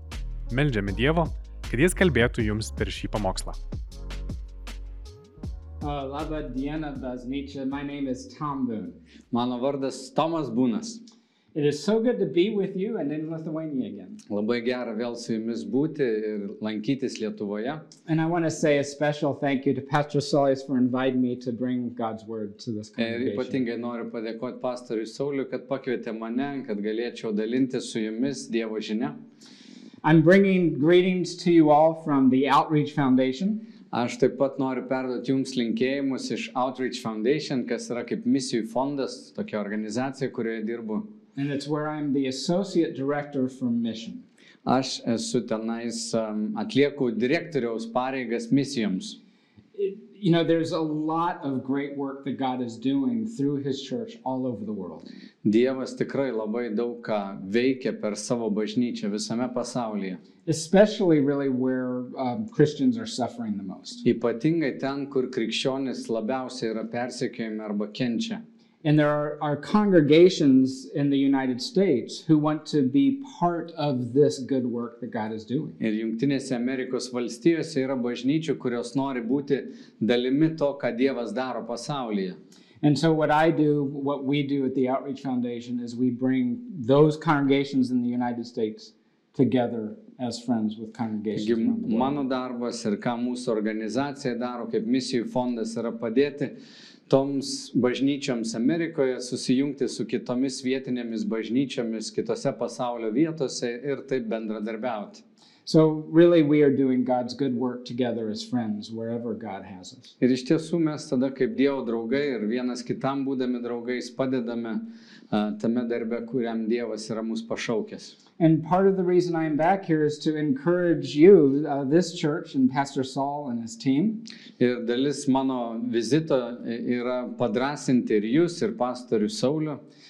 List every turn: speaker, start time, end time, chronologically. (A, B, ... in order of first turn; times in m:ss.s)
0:00.5-0:03.6 A
0:05.8-0:09.0 B
0:09.3-0:11.0 C
0:11.5-0:14.2 B
0:14.3-0:17.8 C
0:18.1-0:23.6 B
0:23.0-0:29.2 C
0:30.0-0:33.6 B
0:33.9-0:41.1 C
0:41.4-0:44.2 B
0:44.6-0:49.2 C
0:49.8-0:55.1 B
0:55.4-1:00.2 C
1:00.4-1:04.0 B
1:04.0-1:08.4 C
1:08.8-1:15.8 B
1:15.8-1:22.4 C
1:22.8-1:32.2 B
1:31.3-1:36.6 C
1:37.1-1:45.2 C
1:45.6-1:50.1 B
1:50.2-1:58.1 C
1:58.4-2:04.2 B
2:04.6-2:09.8 C